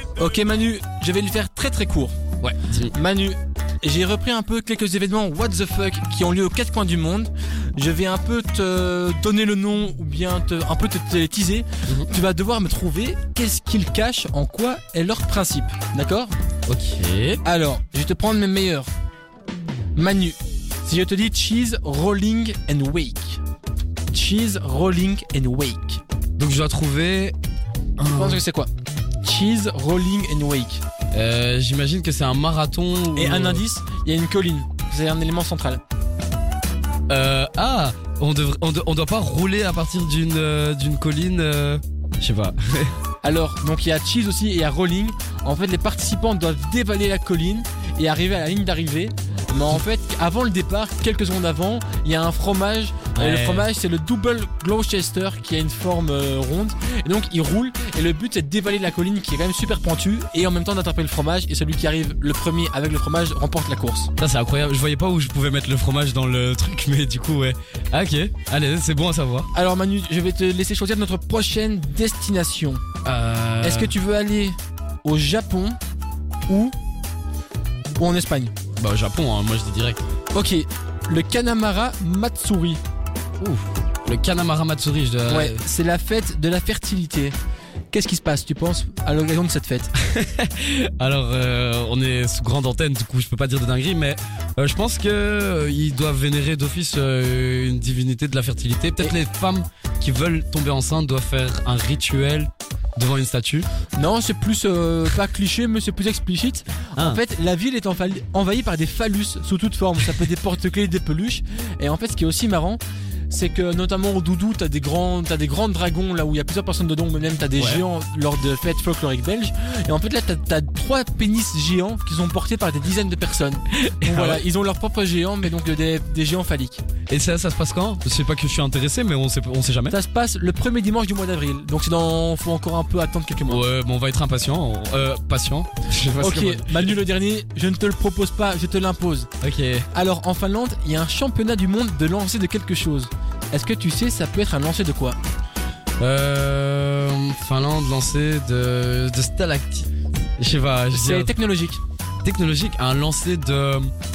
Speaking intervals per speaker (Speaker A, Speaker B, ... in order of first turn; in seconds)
Speaker A: 0.2-2.1, 2.9-16.3, 17.4-18.9, 19.9-23.4, 24.1-26.0, 28.1-28.7, 29.2-30.8, 33.1-35.8, 43.2-64.1, 69.5-72.8, 73.6-75.8, 76.5-76.7, 78.0-78.5, 80.3-82.8, 85.3-87.3, 87.9-89.9, 103.9-126.8, 129.9-133.6, 136.2-139.3, 139.9-145.2, 150.9-151.8
Speaker B: 2.4-2.9, 16.7-17.4, 26.4-27.4, 28.0-28.4, 31.1-33.6, 37.1-42.9, 53.1-53.7, 64.2-69.5, 73.0-73.9, 78.7-80.0, 83.4-85.6, 90.0-103.7, 117.6-117.8, 123.7-124.4, 127.1-129.9, 133.4-136.9, 139.4-139.9, 146.0-151.3, 152.2-153.9